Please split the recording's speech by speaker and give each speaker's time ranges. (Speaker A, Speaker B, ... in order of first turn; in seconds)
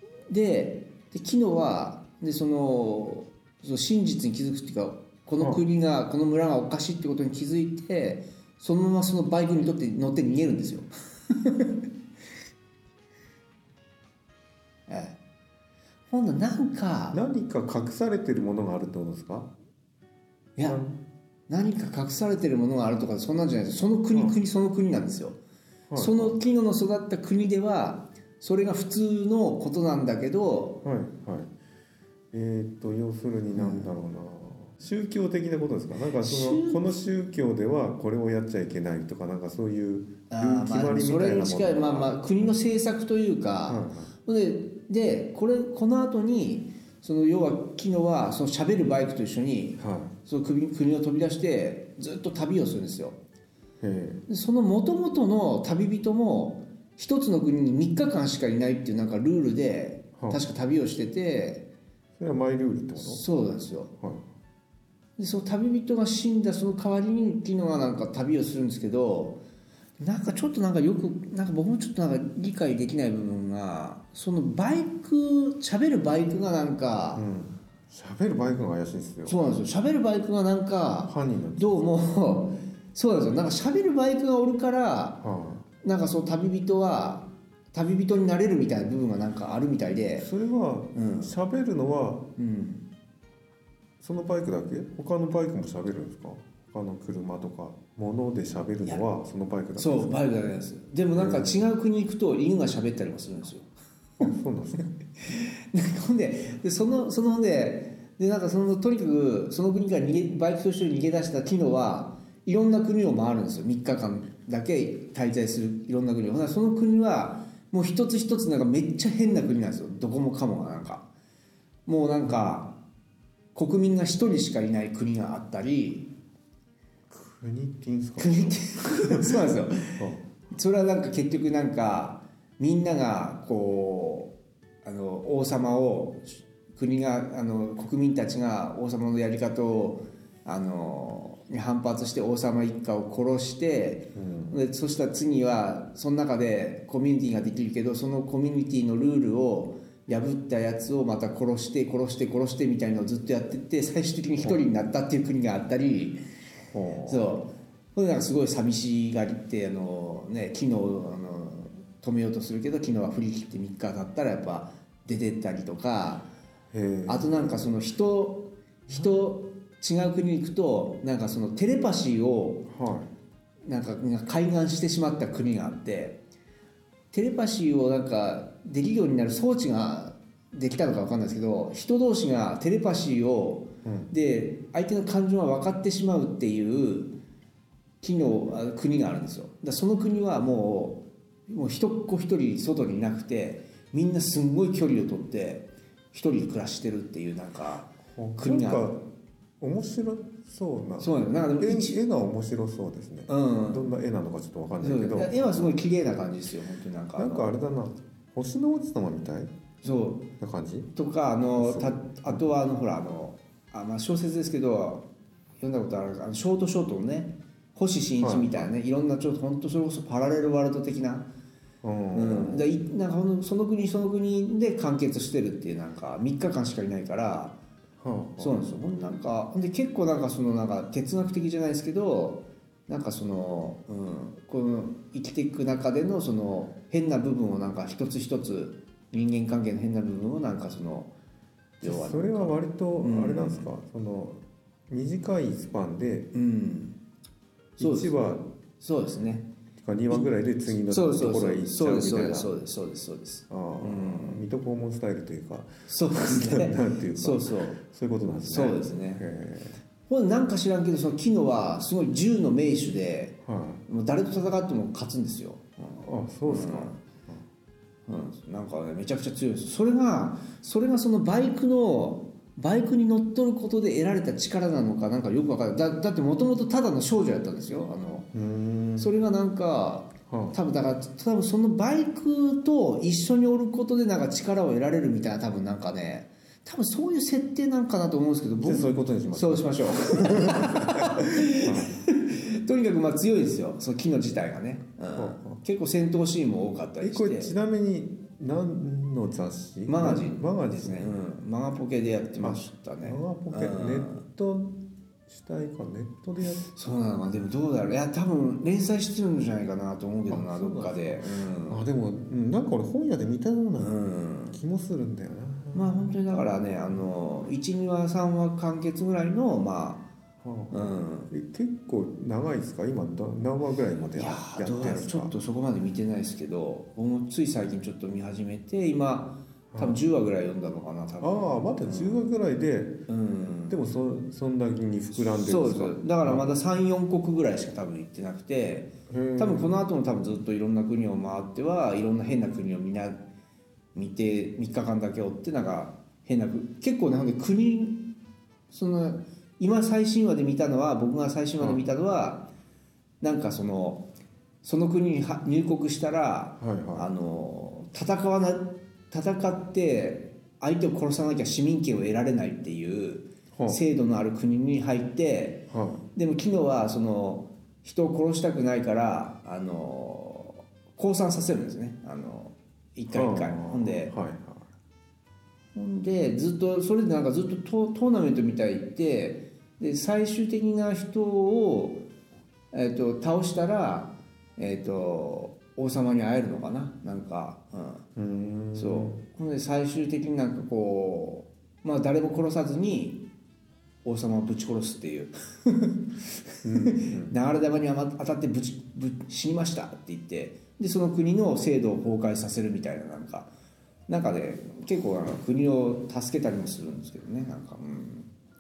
Speaker A: 0.3-11.8, 14.9-15.2, 16.1-17.2, 21.5-25.4, 26.0-30.8, 33.5-33.9, 36.2-37.0, 40.3-53.2, 54.3-61.7, 63.0-63.9, 65.2-69.4, 70.0-77.2, 79.3-85.2, 85.8-90.3, 90.9-91.3, 92.4-92.9, 99.8-103.7, 104.8-121.1, 121.9-122.8, 123.5-126.2, 128.2-156.2, 157.1-166.3, 167.1-172.7, 173.7-176.2, 177.1-187.2, 188.0-198.9, 201.0-202.0, 203.3-203.9, 204.8-207.5, 209.8-210.3, 210.9-215.1, 215.6-221.3, 222.1-227.6, 228.4-241.1, 241.8-243.7, 246.3-247.0, 247.8-249.5, 250.1-254.4, 255.9-257.8, 258.4-259.2, 260.1-267.0, 268.1-278.3, 279.0-297.5, 299.9-304.2, 306.4-311.8, 313.8-314.6, 315.7-320.1, 320.7-321.3, 324.1-332.2, 333.1-333.8, 335.1-343.3, 343.9-348.1, 348.7-352.5, 353.2-354.1, 354.6-374.1, 375.8-382.0, 382.7-388.1, 388.8-393.3, 394.0-403.5, 404.1-408.3
Speaker B: 17.1-19.5, 20.6-21.0, 24.1-24.4, 25.9-26.4, 30.8-31.5, 32.3-42.6, 43.7-44.1, 49.8-50.1, 53.8-54.2, 62.2-63.2, 77.2-79.4, 81.1-81.8, 85.2-85.7, 90.2-92.3, 94.0-100.2, 101.1-101.7, 104.2-104.9, 122.2-122.6, 127.1-129.4, 129.9-130.2, 144.1-144.6, 156.7-157.3, 166.7-167.7, 172.7-173.1, 183.8-184.1, 198.1-199.1, 199.6-205.8, 207.2-209.5, 210.4-210.9, 211.6-212.4, 218.2-218.7, 221.8-222.7, 228.0-228.6, 241.8-246.3, 247.8-248.5, 249.8-252.5, 253.5-259.8, 263.4-263.8, 266.0-267.4, 278.3-279.1, 280.3-280.6, 288.6-292.1, 295.1-295.6, 297.0-301.1, 302.4-306.6, 310.3-314.0, 314.5-316.4, 320.4-325.3, 329.7-330.0, 331.2-333.1, 333.7-336.5, 339.1-339.8, 351.6-351.8, 356.6-357.1, 363.5-363.8, 365.7-366.0, 373.1-374.7, 388.2-389.2, 396.6-397.3